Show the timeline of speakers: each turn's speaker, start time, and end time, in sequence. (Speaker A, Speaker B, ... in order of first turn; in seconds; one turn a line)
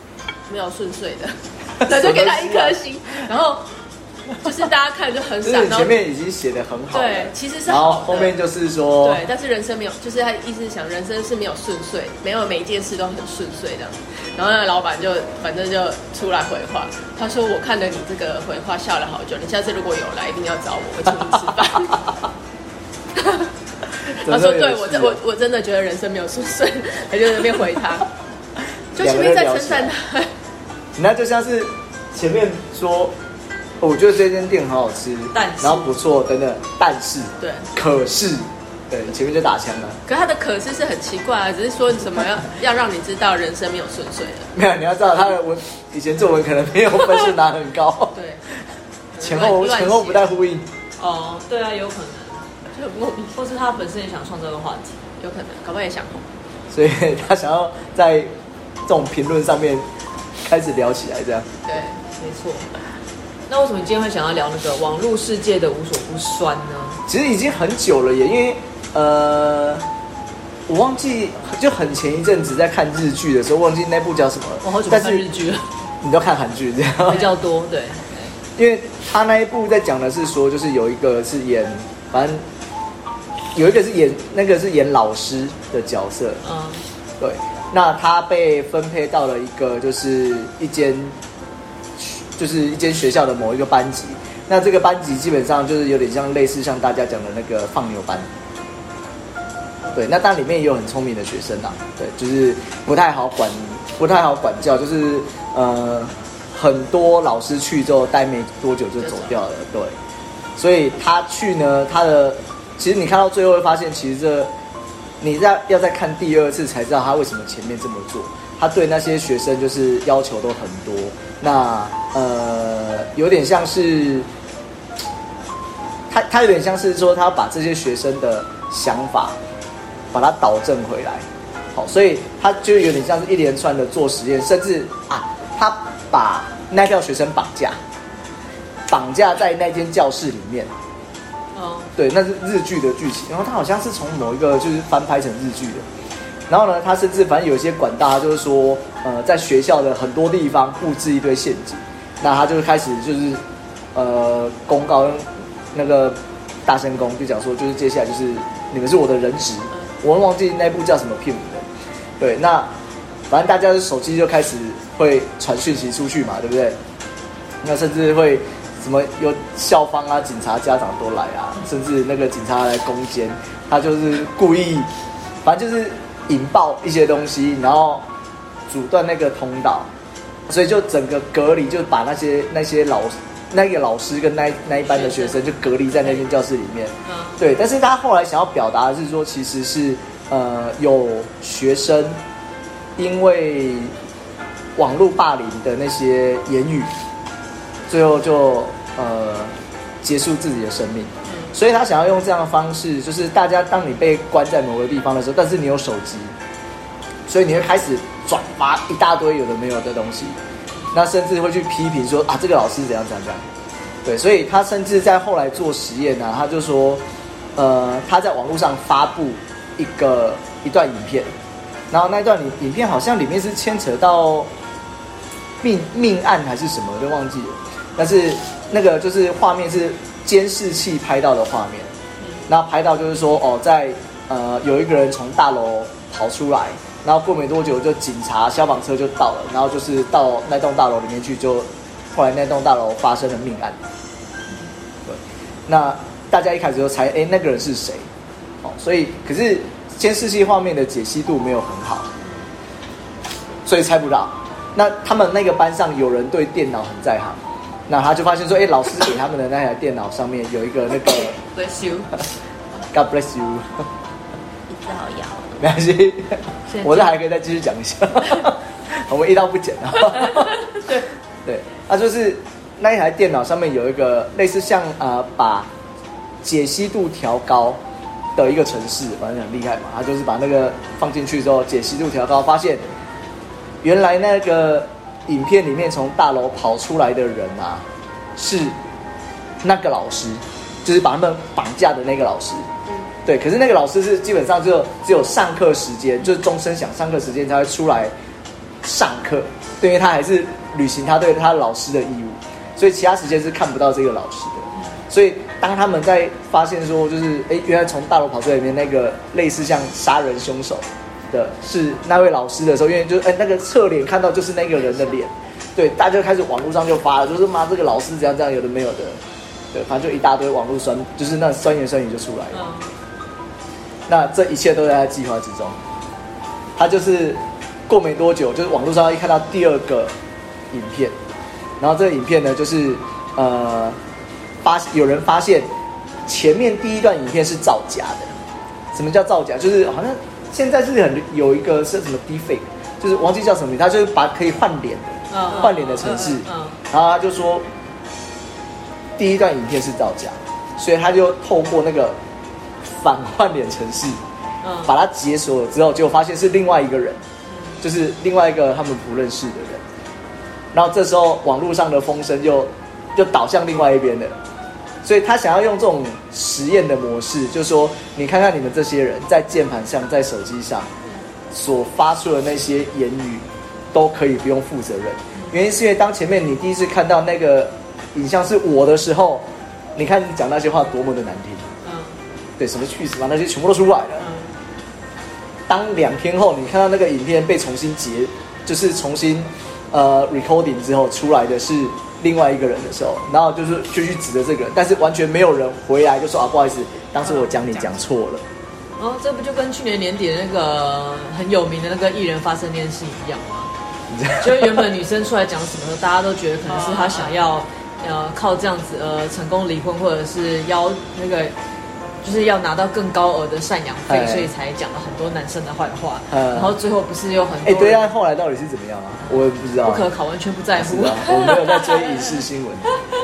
Speaker A: 0.5-3.7
Speaker B: 1.8-2.8
Speaker A: 4.4-6.0
Speaker B: 5.4-9.3
Speaker A: 6.9-8.3
Speaker A: 9.0-22.1
Speaker A: 23.1-23.5
Speaker A: 24.2-28.1
Speaker B: 24.2-25.2
Speaker B: 28.9-29.9
Speaker A: 28.9-30.3
Speaker B: 30.9-33.1
Speaker B: 33.8-40.0
Speaker C: 35.3-35.9
Speaker A: 37.4-37.7
Speaker A: 40.1-44.5
Speaker B: 44.5-48.1
Speaker A: 48.1-48.4
Speaker A: 49.1-50.3
Speaker B: 49.2-50.7
Speaker C: 51.0-52.5
Speaker A: 52.7-53.4
Speaker C: 53.3-55.0
Speaker A: 55.2-56.2
Speaker B: 56.7-58.3
Speaker B: 58.9-59.9
Speaker B: 60.4-61.5
Speaker A: 61.7-62.0
Speaker C: 62.1-62.7
Speaker C: 63.5-67.0
Speaker B: 67.1-69.8
Speaker B: 70.7-75.2
Speaker C: 74.6-75.7
Speaker B: 76.0-77.3
Speaker C: 77.0-78.3
Speaker B: 78.5-82.4
Speaker B: 83.5-86.4
Speaker C: 86.4-86.8
Speaker B: 87.2-91.2
Speaker B: 92.0-98.3
Speaker B: 99.9-109.9
Speaker A: 109.0-109.4
Speaker B: 110.6-114.5
Speaker B: 115.2-124.3
Speaker B: 126.1-129.4
Speaker B: 130.1-137.8
Speaker B: 138.9-140.7
Speaker C: 141.5-141.9
Speaker B: 142.0-145.9
Speaker B: 146.5-153.4
Speaker B: 153.9-161.7
Speaker B: 162.2-162.8
Speaker B: 163.3-166.8
Speaker B: 167.6-174.9
Speaker B: 175.4-178.1
Speaker B: 178.7-179.9
Speaker B: 180.5-192.2
Speaker C: 184.9-185.3
Speaker C: 187.0-187.4
Speaker B: 193.0-193.9
Speaker B: 194.8-196.9
Speaker B: 197.9-206.3
Speaker B: 207.3-210.4
Speaker B: 210.9-213.4
Speaker B: 214.0-217.0
Speaker B: 217.6-221.3
Speaker B: 221.9-224.5
Speaker B: 225.6-231.9
Speaker B: 232.5-243.8
Speaker B: 245.1-248.1
Speaker B: 248.6-252.1
Speaker B: 253.6-261.4
Speaker A: 261.3-262.1
Speaker B: 262.9-263.9
Speaker A: 264.7-265.6
Speaker B: 265.6-270.6
Speaker C: 266.7-267.1
Speaker C: 270.1-271.1
Speaker B: 271.4-275.7
Speaker B: 276.4-277.8
Speaker B: 278.4-282.8
Speaker B: 283.8-288.8
Speaker B: 289.6-292.7
Speaker B: 293.2-298.1
Speaker B: 298.8-319.2
Speaker B: 319.7-322.6
Speaker C: 322.5-322.9
Speaker B: 324.1-325.8
Speaker B: 326.8-330.1
Speaker B: 330.7-331.1
Speaker B: 331.8-334.0
Speaker B: 334.6-335.7
Speaker B: 336.2-338.3
Speaker B: 338.9-347.7
Speaker C: 345.3-346.8
Speaker B: 349.2-352.2
Speaker B: 352.9-354.2
Speaker C: 354.6-354.9
Speaker B: 354.9-357.2
Speaker C: 357.5-357.8
Speaker B: 357.8-359.8
Speaker B: 360.7-364.4
Speaker B: 365.0-370.9
Speaker B: 371.5-381.7
Speaker C: 381.8-382.2
Speaker B: 382.6-384.2
Speaker C: 384.2-384.5
Speaker B: 385.7-398.4
Speaker C: 397.2-397.8
Speaker C: 399.0-403.7
Speaker B: 404.1-404.9
Speaker C: 404.3-411.5
Speaker A: 406.7-407.4
Speaker C: 412.2-418.1
Speaker B: 414.1-414.5
Speaker B: 416.3-416.8
Speaker B: 417.6-420.1
Speaker C: 419.2-422.0
Speaker B: 420.8-422.9